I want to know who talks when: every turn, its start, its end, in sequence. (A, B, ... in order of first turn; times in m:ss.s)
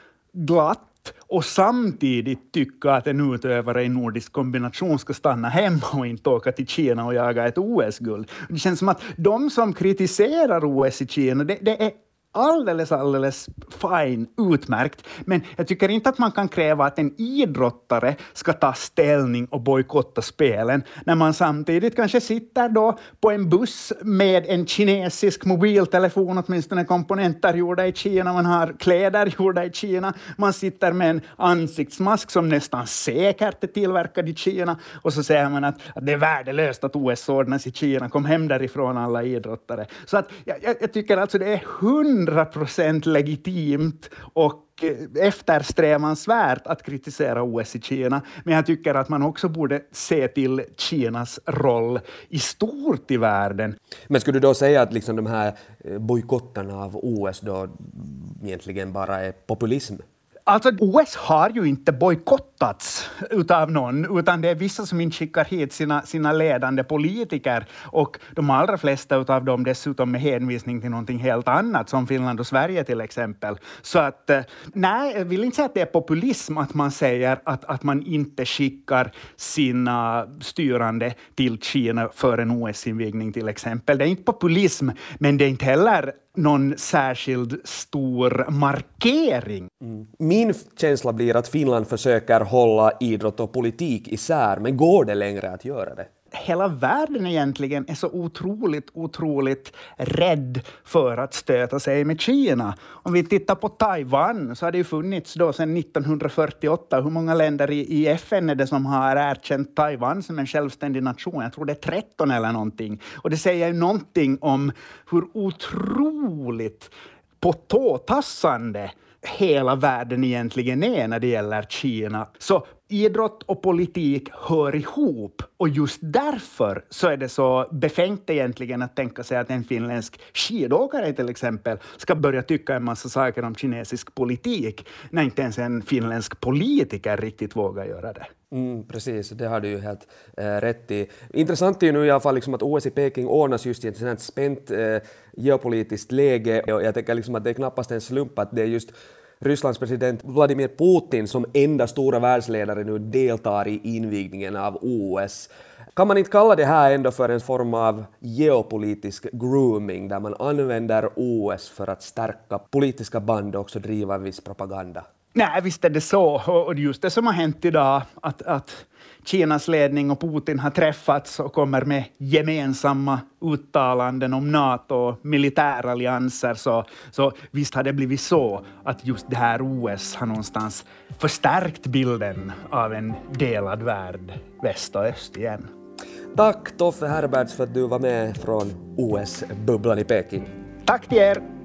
0:00.3-0:53.8 A
0:54.1-1:00.0 B
1:00.5-1:29.7 A
1:29.8-1:36.1 B
1:36.3-2:18.3 A
2:18.5-2:45.0 B
2:45.4-3:05.7 A
3:06.4-3:10.5 B
3:10.9-3:11.4 A